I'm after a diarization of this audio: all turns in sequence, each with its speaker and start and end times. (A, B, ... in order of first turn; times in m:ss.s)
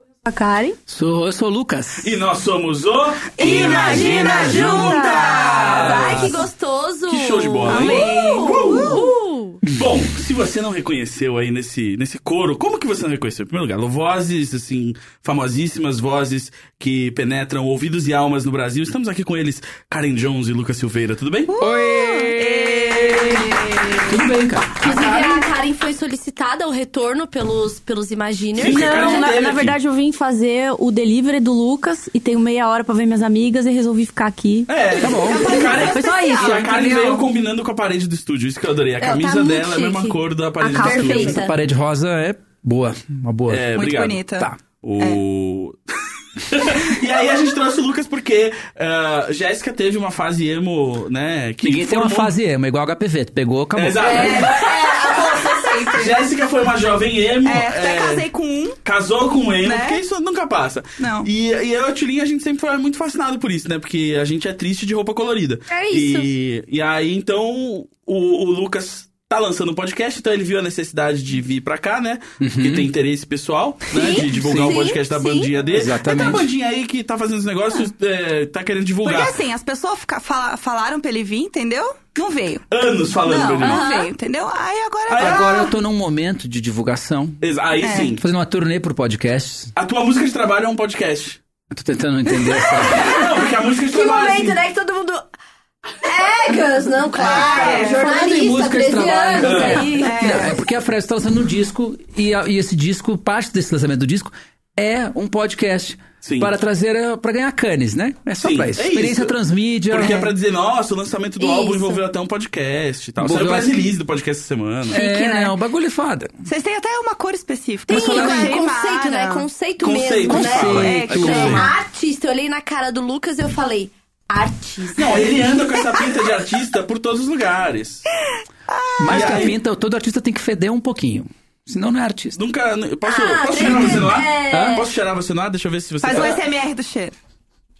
0:00.2-0:00.8 A
0:00.9-0:02.2 B
0:02.0-0:06.4 C
0:03.4-0:06.1 D
0:03.4-0:09.6 E
0:05.3-0:06.4 B
0:07.1-0:09.0 C
0:07.7-0:09.1 D
0:09.7-0:21.5 C
0:21.5-0:24.2 D
0:21.6-0:25.4 B
0:24.8-0:29.2 E
0:28.6-0:29.8 C
0:28.6-0:34.7 A
0:34.7-0:41.4 C
0:34.8-0:37.3 D
0:35.0-0:35.5 B
0:35.7-0:36.7 A
0:39.0-0:41.5 E
0:40.7-0:41.3 A
0:40.9-0:43.7 B
0:43.5-0:44.2 C
0:43.7-0:44.5 D
0:44.8-0:45.8 C
0:46.4-0:52.3 C
0:51.6-0:54.6 B
0:53.7-0:54.7 C
0:54.0-0:56.2 D
0:55.9-0:58.2 C
0:57.4-0:58.8 D
0:58.8-1:19.4 C
0:59.6-1:00.0 D
1:01.0-1:01.3 D
1:05.7-1:06.3 E
1:12.4-1:12.9 B
1:13.9-1:15.5 E
1:14.3-1:14.8 B
1:15.7-1:16.5 B
1:19.0-1:22.6 D
1:22.7-1:23.9 C
1:23.2-1:25.7 D
1:23.6-1:24.1 E
1:25.1-1:25.5 C
1:25.1-1:27.4 B
1:27.4-1:28.2 C
1:27.8-1:28.1 D
1:28.0-1:29.7 B
1:29.8-1:31.4 C
1:31.7-1:33.2 B
1:32.8-1:35.2 E
1:32.8-1:34.6 C
1:36.0-1:40.4 E
1:37.2-1:38.0 D
1:37.2-1:38.0 C
1:37.3-1:50.3 B
1:39.4-1:39.9 C
1:39.9-1:40.6 D
1:46.2-1:46.5 C
1:48.4-1:49.3 C
1:49.9-1:55.0 C
1:51.4-1:52.0 E
1:53.2-1:53.8 B
1:54.9-1:55.5 D
1:54.9-1:56.3 B
1:56.4-1:59.4 D
1:57.9-2:05.6 E
1:57.9-1:58.6 B
1:59.8-2:01.7 C
2:00.3-2:01.7 B
2:00.8-2:01.7 D
2:05.0-2:08.0 C
2:08.7-2:09.5 D
2:09.0-2:12.4 B
2:09.1-2:09.5 C
2:12.3-2:16.4 C
2:13.0-2:14.9 E
2:13.6-2:14.8 B
2:16.0-2:17.2 D